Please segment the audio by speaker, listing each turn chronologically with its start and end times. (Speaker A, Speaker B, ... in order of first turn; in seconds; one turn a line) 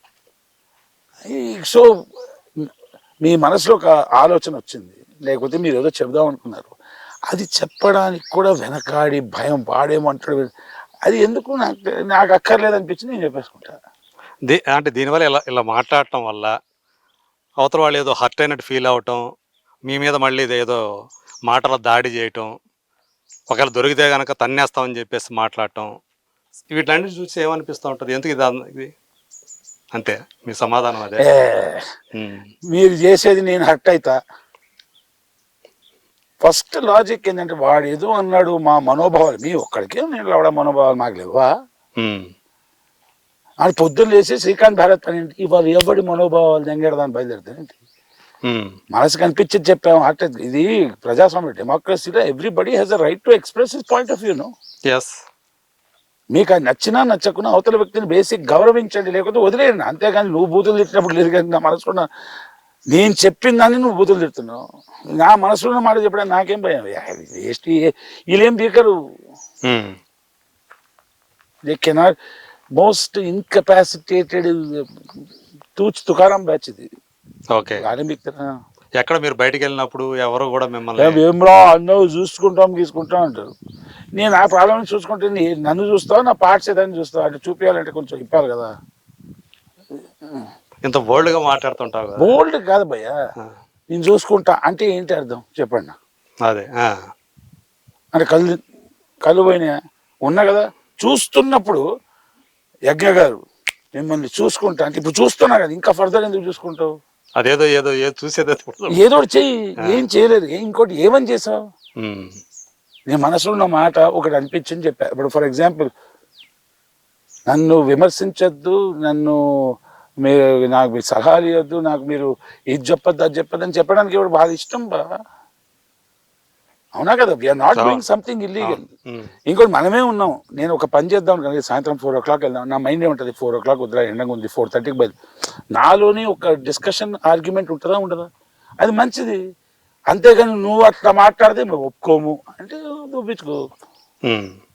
Speaker A: 1.2-1.9
Speaker A: 3.2-6.7
Speaker A: 7.3-10.5
Speaker A: 11.1-13.8
Speaker B: 14.5-16.5
Speaker B: 17.6-19.2
Speaker B: 19.9-20.8
Speaker B: 21.5-22.5
Speaker B: 23.5-25.9
Speaker B: 26.7-28.9
Speaker B: 29.9-31.2
Speaker A: 31.2-31.9
Speaker B: 32.1-32.5
Speaker A: 32.7-34.1
Speaker A: 36.4-41.5
Speaker B: 42.0-42.3
Speaker A: 43.6-47.8
Speaker B: 48.5-48.7
Speaker A: 48.9-54.5
Speaker A: 56.3-62.1
Speaker A: 62.9-64.6
Speaker A: 65.2-68.9
Speaker B: 69.7-69.9
Speaker A: 71.7-72.1
Speaker A: 72.8-74.8
Speaker A: 75.8-76.9
Speaker B: 77.5-77.8
Speaker A: 77.8-78.5
Speaker B: 79.0-81.2
Speaker A: 81.0-83.5
Speaker A: 84.1-88.7
Speaker B: 90.8-92.4
Speaker A: 92.2-93.1
Speaker A: 93.9-95.9
Speaker B: 96.5-96.9
Speaker A: 98.1-98.6
Speaker A: 99.2-99.7
Speaker A: 100.2-101.8
Speaker A: 102.9-103.4
Speaker A: 104.0-106.9
Speaker B: 107.4-109.0
Speaker A: 109.0-111.6
Speaker B: 112.0-112.3
Speaker A: 113.1-115.9
Speaker A: 117.5-119.3
Speaker A: 120.2-125.0
Speaker A: 127.0-128.8
Speaker B: 127.8-128.0
Speaker B: 128.6-129.3
Speaker A: 129.5-135.1
Speaker A: 135.7-138.3
Speaker A: 138.8-139.4
Speaker A: 140.1-143.6
Speaker B: 144.3-144.5